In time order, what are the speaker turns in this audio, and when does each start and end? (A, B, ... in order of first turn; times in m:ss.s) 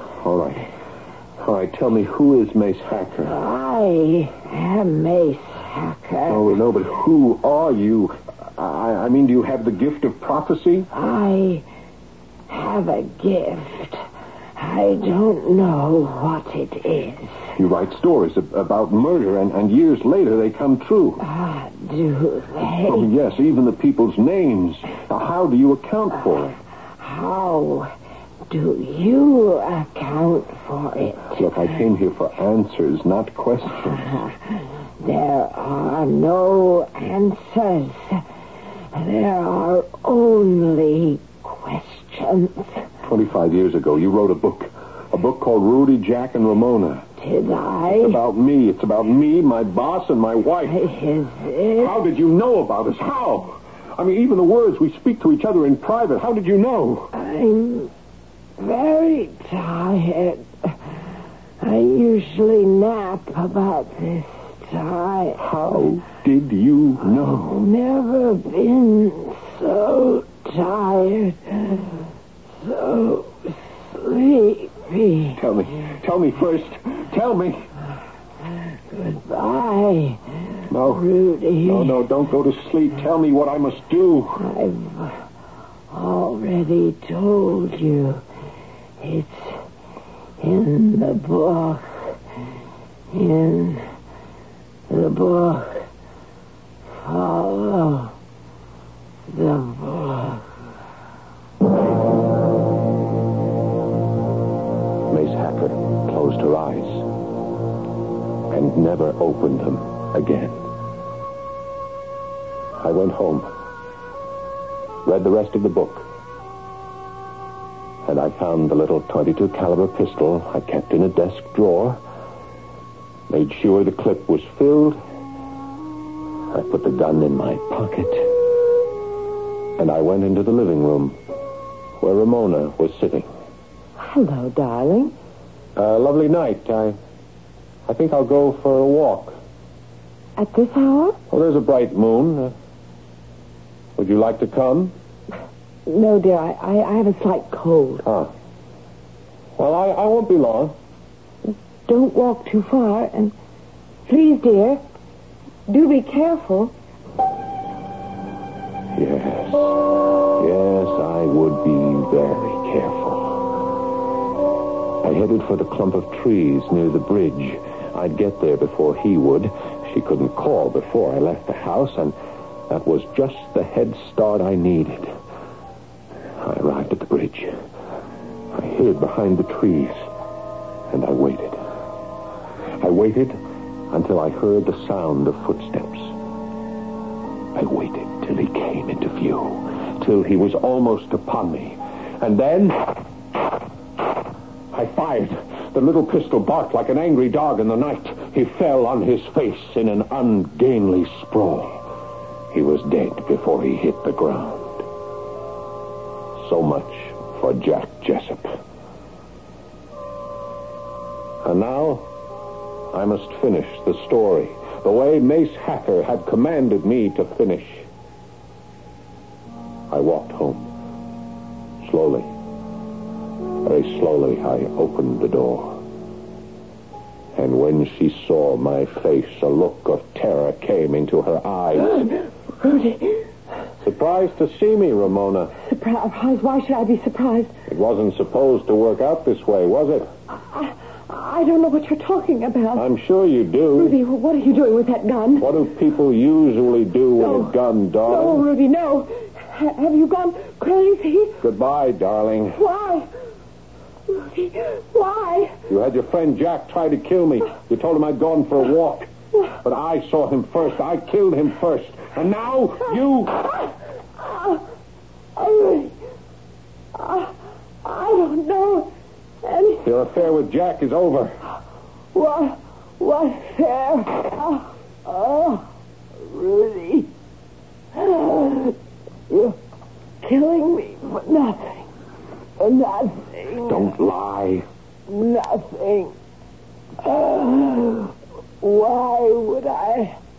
0:00.2-0:00.7 A
0:01.4-0:03.4 A
0:03.2-0:06.6 B
0:06.3-0:10.9 A
0:10.9-0:11.6 B
0:12.5-0:14.0 B
0:14.6-0:17.5 B
0:17.6-0:21.2 A
0:21.2-0:23.1 B
0:22.8-0:26.6 A
0:27.0-0:27.9 B
0:28.5-0:31.7 B
0:31.4-0:34.2 A
0:35.0-0:38.2 B
0:38.9-0:42.8 B
0:43.0-0:47.1 A
0:47.2-0:48.2 B
0:47.9-0:50.9 A
0:50.7-0:52.0 B
0:51.7-0:57.1 A
0:57.1-0:57.9 B
0:58.6-1:00.8 B
1:01.6-1:05.4 B
1:05.4-1:07.6 A
1:07.4-1:11.8 B
1:12.6-1:15.4 B
1:15.3-1:17.7 A
1:18.9-1:20.2 B
1:20.7-1:21.1 A
1:20.8-1:22.0 B
1:21.6-1:24.4 A
1:24.4-1:25.2 B
1:25.9-1:28.2 B
1:29.0-1:29.6 B
1:30.4-1:32.0 B
1:33.1-1:33.9 B
1:34.9-1:35.8 B
1:37.0-1:38.1 B
1:39.3-1:40.4 B
1:45.1-1:47.0 A
1:48.5-1:50.6 A
1:52.8-1:53.5 A
1:55.0-1:56.0 A
1:58.0-2:02.0 A
2:03.3-2:05.0 A
2:06.5-2:08.3 A
2:09.8-2:11.2 A
2:12.0-2:13.3 A
2:14.0-2:15.1 B
2:15.8-2:17.0 A
2:17.9-2:19.4 A
2:20.4-2:21.2 B
2:21.3-2:22.5 A
2:24.0-2:24.9 A
2:25.8-2:28.1 B
2:28.0-2:28.3 A
2:29.6-2:30.7 A
2:31.4-2:33.3 B
2:34.1-2:34.8 B
2:35.7-2:36.7 B
2:38.9-2:43.4 A
2:45.0-2:52.2 A
2:52.7-2:55.2 A
2:56.4-2:57.5 A
2:58.5-3:00.0 A
3:00.9-3:01.6 A
3:02.8-3:03.4 A
3:03.9-3:06.1 A
3:07.5-3:13.0 A
3:14.7-3:21.8 A
3:22.5-3:24.8 A
3:26.4-3:28.5 A
3:31.4-3:32.1 A
3:32.9-3:37.9 A
3:39.9-3:40.7 A
3:41.8-3:42.3 A
3:43.6-3:45.8 A
3:47.3-3:52.1 A
3:52.6-3:53.2 B
3:53.8-3:55.5 A
3:55.7-3:57.5 B
3:57.7-4:00.1 A
4:00.5-4:02.9 B
4:02.7-4:04.0 A
4:03.7-4:05.6 B
4:05.4-4:08.4 A
4:07.2-4:11.4 B
4:11.4-4:12.6 A
4:12.5-4:13.1 B
4:14.1-4:15.6 B
4:15.7-4:19.1 A
4:19.6-4:23.5 A
4:24.2-4:24.6 B
4:25.4-4:25.9 B
4:26.9-4:28.9 B
4:29.4-4:29.9 B
4:29.8-4:31.4 A
4:32.1-4:35.6 B
4:36.2-4:37.1 B
4:37.9-4:38.7 B
4:39.3-4:39.6 B
4:40.2-4:41.9 B
4:42.6-4:43.9 B
4:43.6-4:44.6 A
4:45.1-4:46.1 B
4:47.0-4:50.2 B